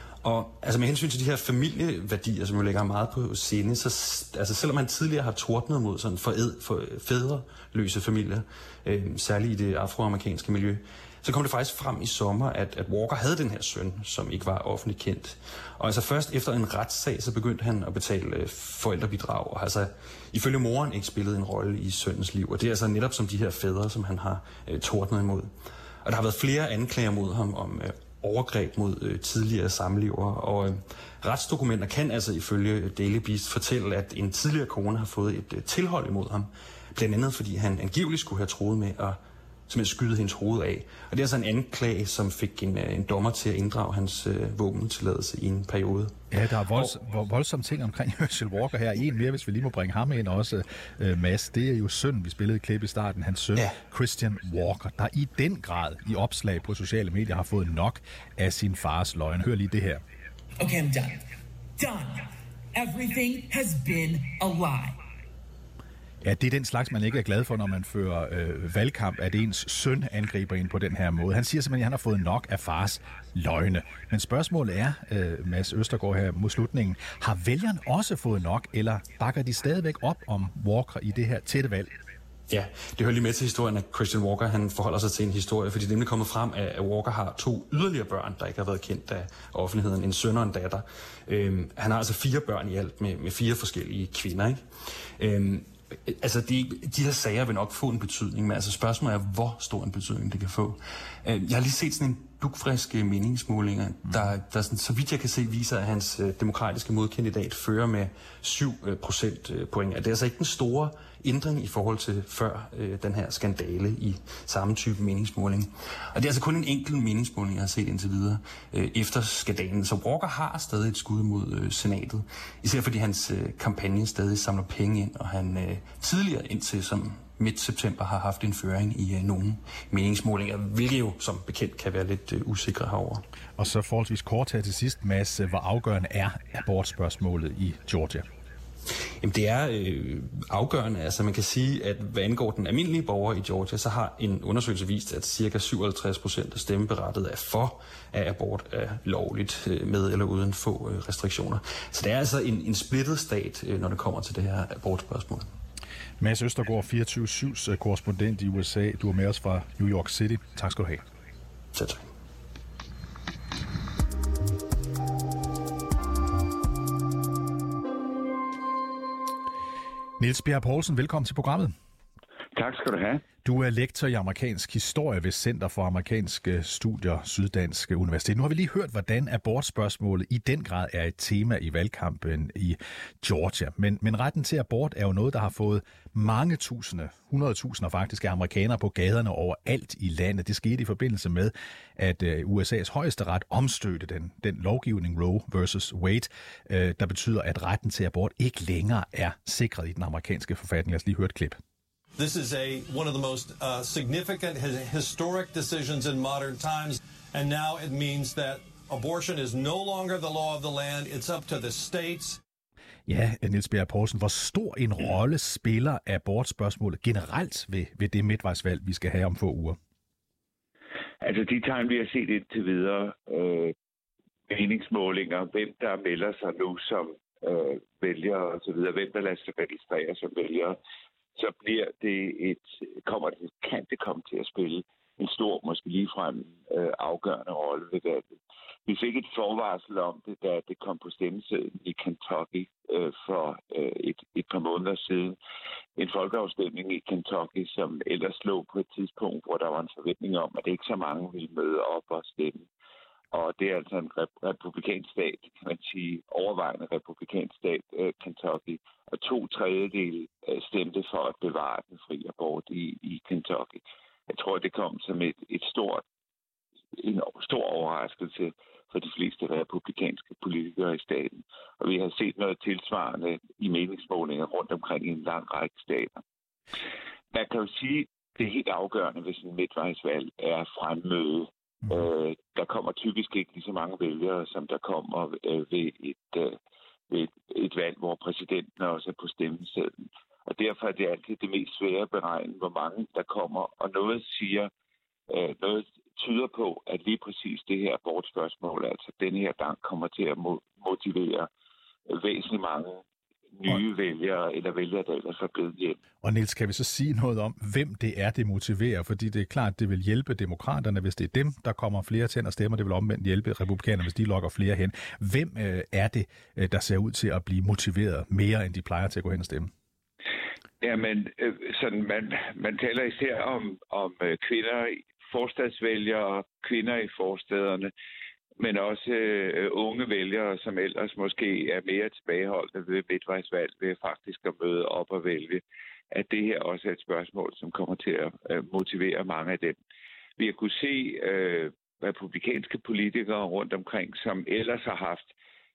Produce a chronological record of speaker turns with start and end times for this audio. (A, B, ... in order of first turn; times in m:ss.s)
0:00.2-0:25.5 A
0:26.0-0:47.0 A
0:46.3-1:00.0 B
1:00.6-1:01.3 C
1:01.8-1:05.0 C
1:06.2-1:21.9 B
1:22.5-2:13.2 A
2:13.6-2:18.2 B
2:19.2-2:35.5 A
2:36.2-2:41.0 B
2:41.7-2:42.1 A
2:50.2-2:51.7 B
2:52.5-2:53.2 D
2:53.4-3:21.6 B
3:22.2-3:32.4 E
3:33.1-3:39.8 B
3:41.2-3:43.7 D
3:44.5-3:50.8 D
3:51.4-3:58.3 D
3:58.9-4:05.4 D
4:06.0-4:12.6 D
4:13.3-4:26.0 D
4:27.0-4:36.2 D
4:37.3-4:46.6 D
4:47.1-4:54.7 D
4:55.3-5:01.5 D
5:02.1-5:03.0 D
5:03.6-5:06.0 D
5:06.2-5:19.7 B
5:20.8-5:27.9 D
5:28.6-5:39.8 D
5:40.4-5:45.3 D